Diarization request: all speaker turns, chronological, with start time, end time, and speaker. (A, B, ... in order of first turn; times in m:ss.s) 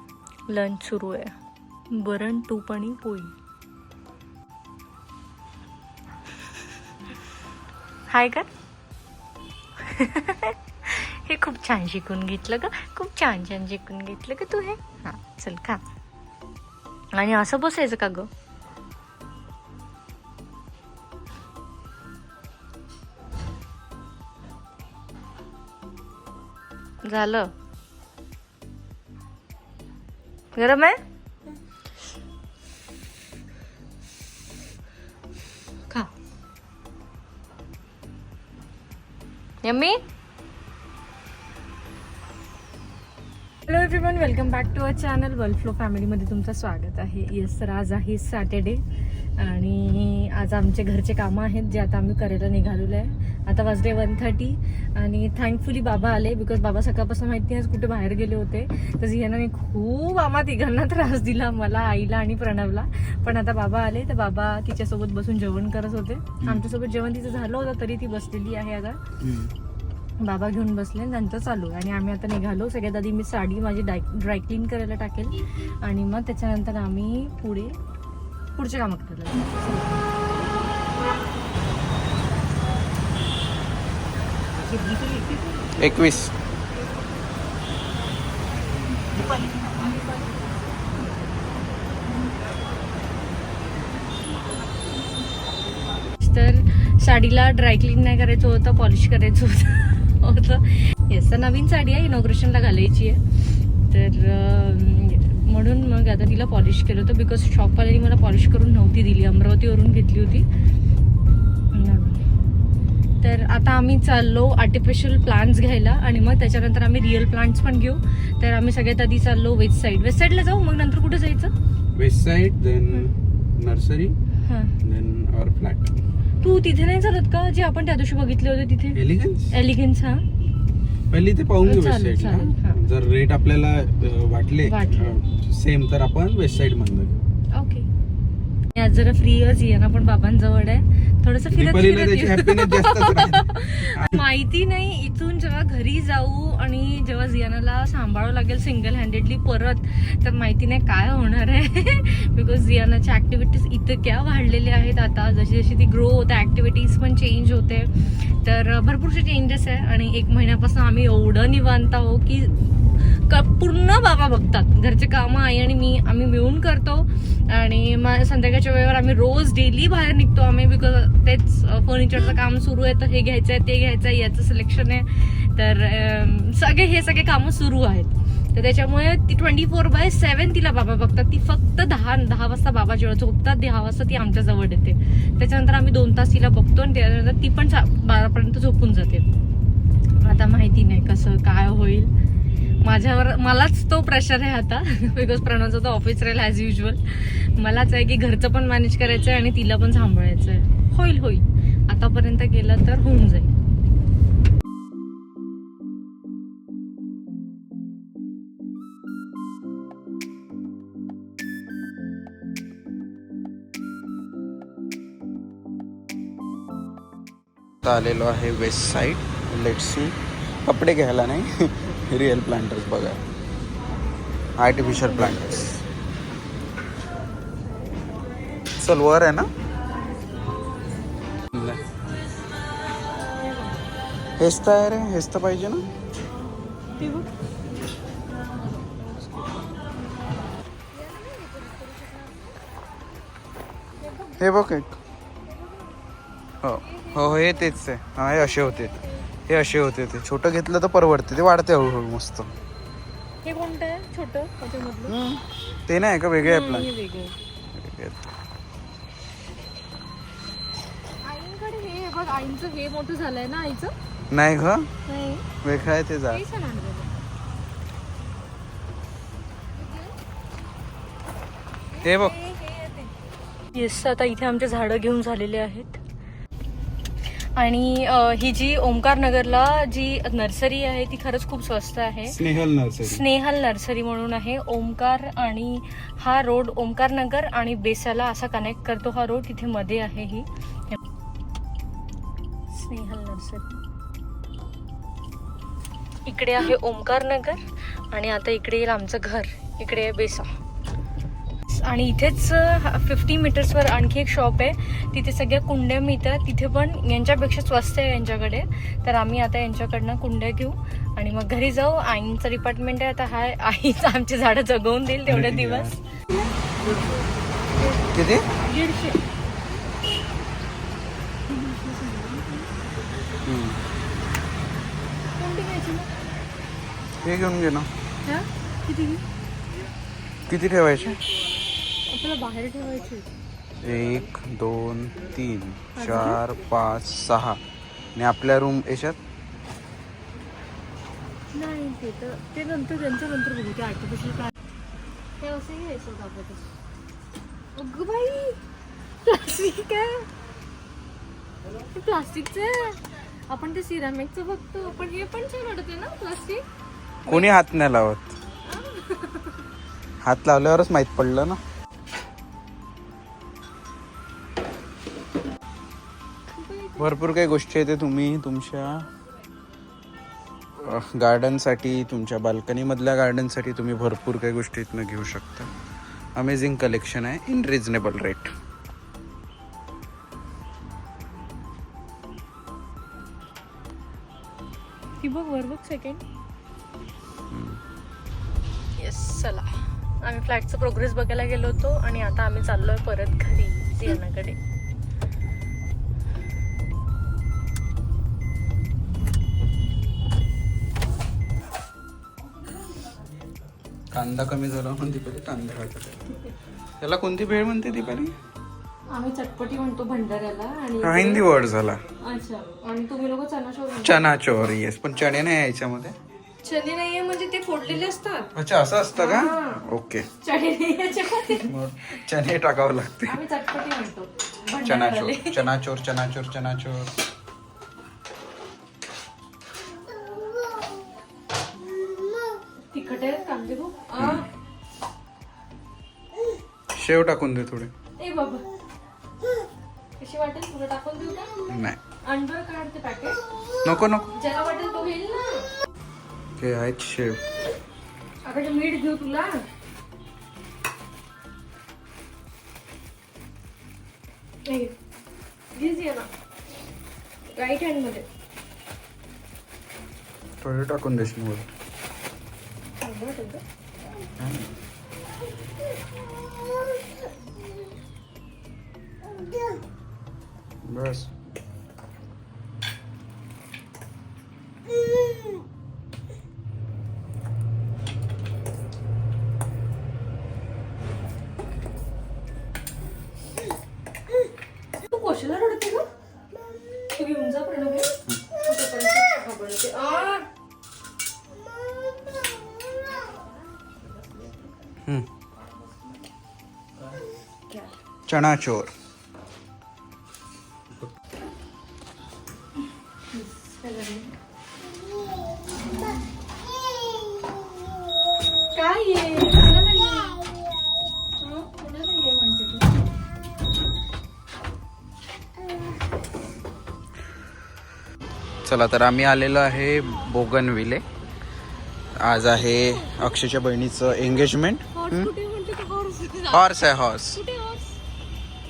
0:00.5-0:01.3 A
0:01.9-0:03.3 A
0:08.1-0:08.5 A
0:09.8-0:15.8 A
0:17.1-0:18.3 A
0:27.0-0:27.5 A
0:30.6-0:31.0 A
0:39.6-0:40.0 A
0:43.7-0:48.8 A
0:49.4-1:09.0 A
1:06.4-1:06.7 B
1:09.2-1:09.5 B
1:10.2-1:17.7 A
1:18.6-1:20.0 A
1:25.8-1:26.3 B
1:36.2-1:50.4 A
1:51.7-1:52.2 A
1:53.2-2:01.5 A
2:02.0-2:04.2 B
2:04.5-2:04.8 A
2:04.8-2:06.0 B
2:06.4-2:09.0 A
2:09.0-2:09.5 B
2:09.5-2:10.2 A
2:11.1-2:17.2 B
2:11.6-2:12.8 A
2:14.6-2:15.2 A
2:17.5-2:17.9 A
2:18.7-3:09.3 A
2:21.5-2:24.2 B
3:10.2-3:12.1 A
3:12.8-3:23.5 A
3:37.8-3:43.2 B
3:44.6-3:45.7 B
3:44.7-3:45.7 A
3:48.8-3:49.5 B
3:51.5-3:51.8 B
3:54.4-3:55.9 B
3:57.0-3:57.3 A
3:58.9-3:59.5 A
4:01.0-4:02.4 A
4:04.0-4:04.4 A
4:04.4-4:05.0 B
4:06.6-4:08.9 B
4:06.8-4:07.8 A
4:08.3-4:09.2 A
4:09.5-4:12.5 B
4:13.4-4:15.2 A
4:15.1-4:16.9 B
4:16.4-4:17.4 A
4:17.7-4:18.3 B
4:21.2-4:23.9 A
4:24.3-4:24.9 B
4:25.1-4:25.4 A
4:25.6-4:26.4 B
4:26.3-4:27.1 A
4:29.8-4:30.1 A
4:31.9-4:33.2 A
4:32.0-4:32.4 B
4:33.7-4:36.0 A
4:37.5-4:42.4 A
4:42.3-4:43.2 B
4:43.0-4:51.0 A
4:52.7-4:53.8 A
4:56.3-5:00.5 A
5:01.7-5:16.4 A
5:15.3-5:16.0 B
5:17.7-5:19.2 A
5:18.1-5:18.5 B
5:21.5-5:22.7 A
5:23.5-5:23.8 B
5:25.4-5:26.1 A
5:27.2-5:27.9 B
5:28.2-5:29.2 A
5:30.5-5:31.2 B
5:32.1-5:33.3 A
5:33.8-5:37.6 B
5:36.0-5:36.4 A
5:38.2-5:39.2 B
5:41.5-5:44.5 A
5:45.4-5:46.6 A
5:47.8-5:48.6 A
5:49.2-5:50.3 A
5:51.9-5:56.6 A
5:57.3-5:58.4 B
5:57.3-5:57.6 A
5:58.7-5:59.6 A
6:00.2-6:01.6 B
6:06.5-6:07.2 A
6:07.0-6:09.1 B
6:10.8-6:15.7 B
6:16.4-6:18.5 B
6:25.2-6:26.2 A
6:27.5-6:27.8 B
6:29.0-6:29.7 A
6:30.2-6:34.6 A
6:44.1-6:46.5 B
6:47.0-6:48.3 B
6:49.1-6:51.5 A
6:51.0-6:52.0 B
6:52.2-6:54.2 A
6:54.0-6:56.2 B
6:56.6-6:58.5 A
6:58.6-7:00.3 B
6:59.2-6:59.8 A
7:00.4-7:01.7 A
7:01.6-7:03.4 B
7:03.3-7:05.7 A
7:04.8-7:07.2 B
7:12.9-7:14.5 A
7:14.2-7:14.5 B
7:17.0-7:17.9 B
7:18.2-7:18.6 A
7:20.2-7:21.7 A
7:21.7-7:22.0 B
7:22.2-7:23.4 A
7:23.8-7:24.3 B
7:24.3-7:25.7 A
7:26.6-7:27.4 B
7:28.4-7:29.6 A
7:34.7-7:34.9 A
7:35.8-7:36.3 A
7:37.5-7:38.3 A
7:40.6-7:41.7 B
7:43.0-7:43.6 A
7:44.4-7:44.7 B
7:50.8-7:51.3 B
8:05.0-8:06.1 A
8:07.0-8:10.5 A
8:18.3-8:18.9 B
8:23.3-8:24.3 A
8:28.7-8:30.5 A
8:31.4-8:33.0 A
8:38.6-8:41.0 B
8:42.2-8:45.3 B
8:42.8-8:43.3 A
8:44.9-8:48.0 A
8:46.5-8:47.4 B